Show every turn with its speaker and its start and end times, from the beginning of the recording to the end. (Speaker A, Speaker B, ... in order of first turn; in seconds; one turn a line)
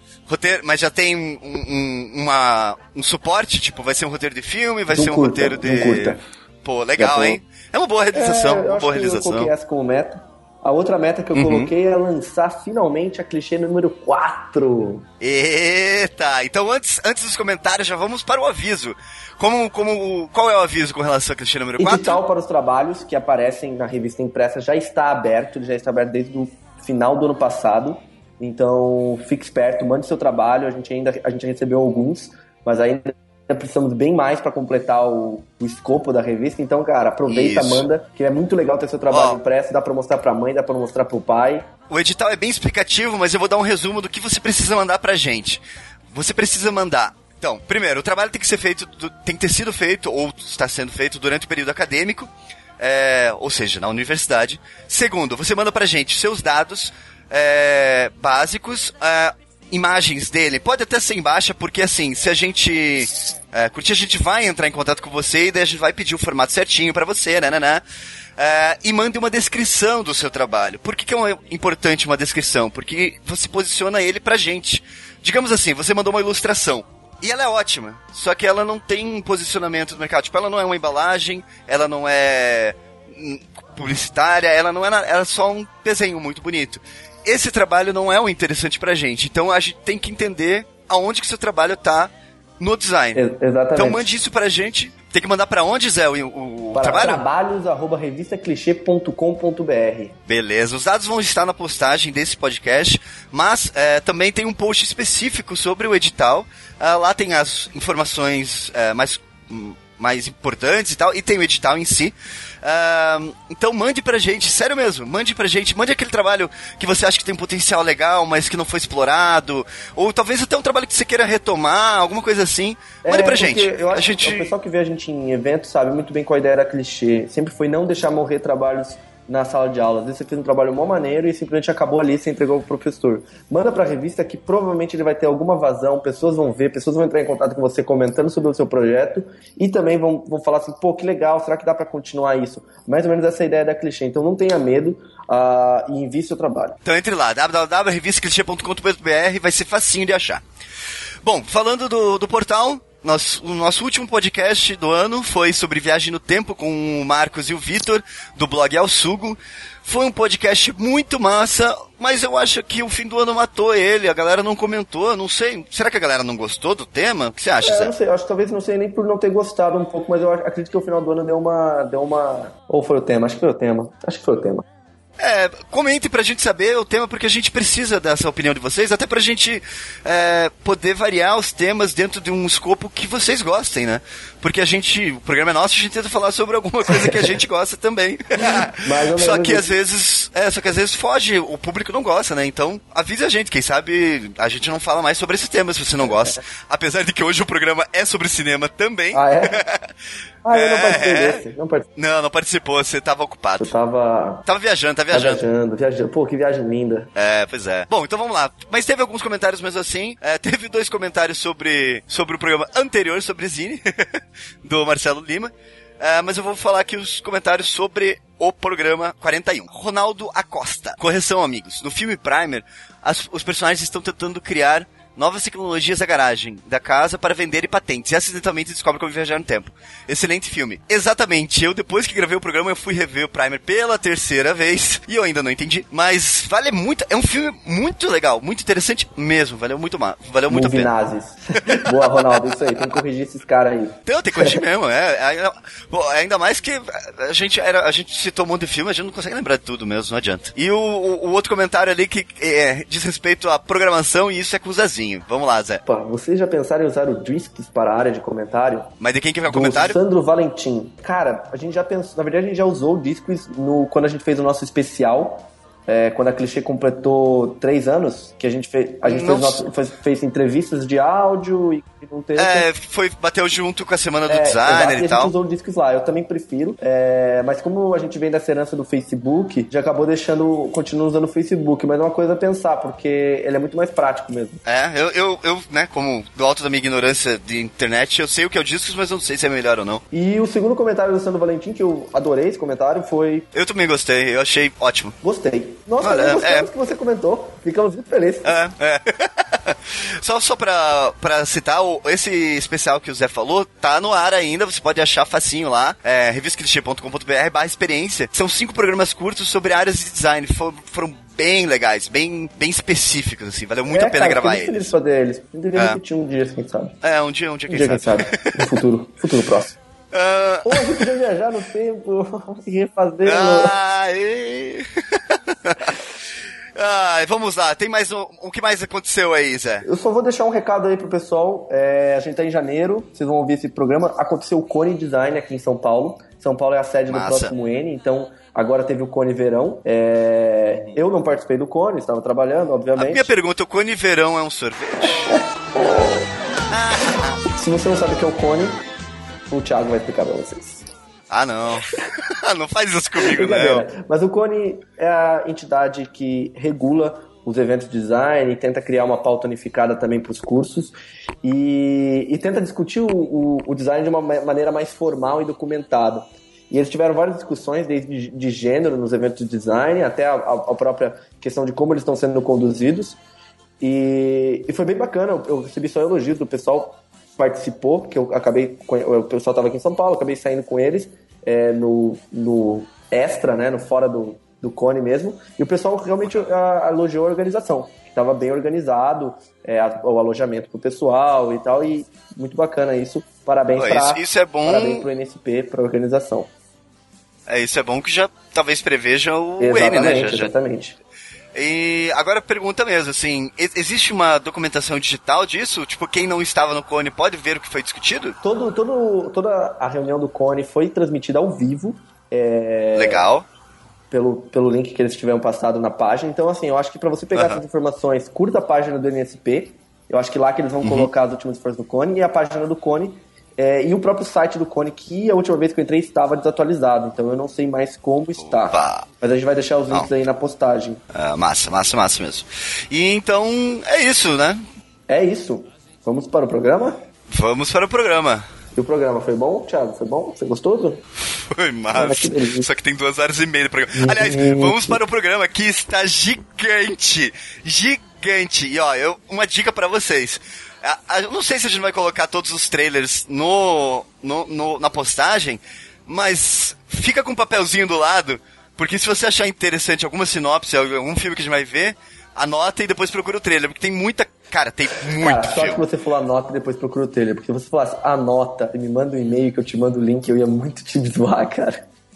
Speaker A: 0.3-9.5
Speaker B: 4.9-6.2
Speaker B: 7.0-7.4
Speaker B: 8.1-15.1
Speaker A: 11.3-11.7
Speaker A: 15.2-22.2
Speaker B: 21.8-41.7
Speaker A: 37.3-37.9
Speaker A: 39.1-39.4
Speaker A: 41.9-67.8
Speaker A: 68.4-93.2
Speaker B: 93.2-94.1
Speaker A: 93.8-97.2
Speaker B: 96.7-100.2
Speaker A: 100.3-124.5
Speaker B: 123.0-146.8
Speaker A: 146.8-150.4
Speaker A: 151.2-167.9
Speaker B: 167.6-174.6
Speaker A: 175.2-199.9
Speaker B: 186.9-187.3
Speaker B: 188.8-189.7
Speaker B: 199.1-199.6
Speaker B: 200.4-201.9
Speaker A: 200.5-201.4
Speaker A: 202.0-203.7
Speaker B: 203.6-204.4
Speaker A: 204.5-205.4
Speaker B: 205.1-207.1
Speaker A: 207.2-240.9
Speaker B: 240.5-244.6
Speaker A: 241.8-242.2
Speaker A: 244.1-255.8
Speaker B: 255.9-258.9
Speaker A: 259.0-260.0
Speaker B: 259.5-272.7
Speaker A: 269.0-269.6
Speaker A: 272.4-275.3
Speaker B: 274.3-284.6
Speaker A: 284.6-290.0
Speaker B: 290.1-293.5
Speaker A: 293.5-295.2
Speaker B: 295.2-298.5
Speaker A: 296.0-296.7
Speaker A: 298.4-314.9
Speaker B: 313.9-317.0
Speaker A: 317.0-318.6
Speaker B: 317.7-319.8
Speaker A: 320.1-321.0
Speaker B: 320.6-323.8
Speaker A: 323.2-325.9
Speaker A: 326.8-329.9
Speaker B: 329.8-343.3
Speaker A: 337.1-337.5
Speaker A: 340.7-341.0
Speaker A: 343.0-345.3
Speaker B: 345.3-346.2
Speaker A: 346.7-347.4
Speaker B: 347.5-348.8
Speaker B: 349.5-350.9
Speaker A: 351.3-353.9
Speaker B: 353.2-373.2
Speaker B: 373.8-396.5
Speaker A: 393.8-395.1
Speaker A: 397.5-400.5
Speaker B: 399.6-401.0
Speaker A: 401.5-408.4
Speaker B: 408.4-413.2
Speaker A: 412.9-413.5
Speaker B: 414.1-431.0
Speaker A: 417.3-417.6
Speaker A: 420.8-421.1
Speaker A: 428.4-429.1
Speaker A: 431.1-434.6
Speaker B: 435.1-437.0
Speaker A: 437.3-438.5
Speaker B: 438.8-441.0
Speaker A: 441.3-465.8
Speaker B: 441.9-442.7
Speaker B: 444.0-445.0
Speaker B: 465.2-471.9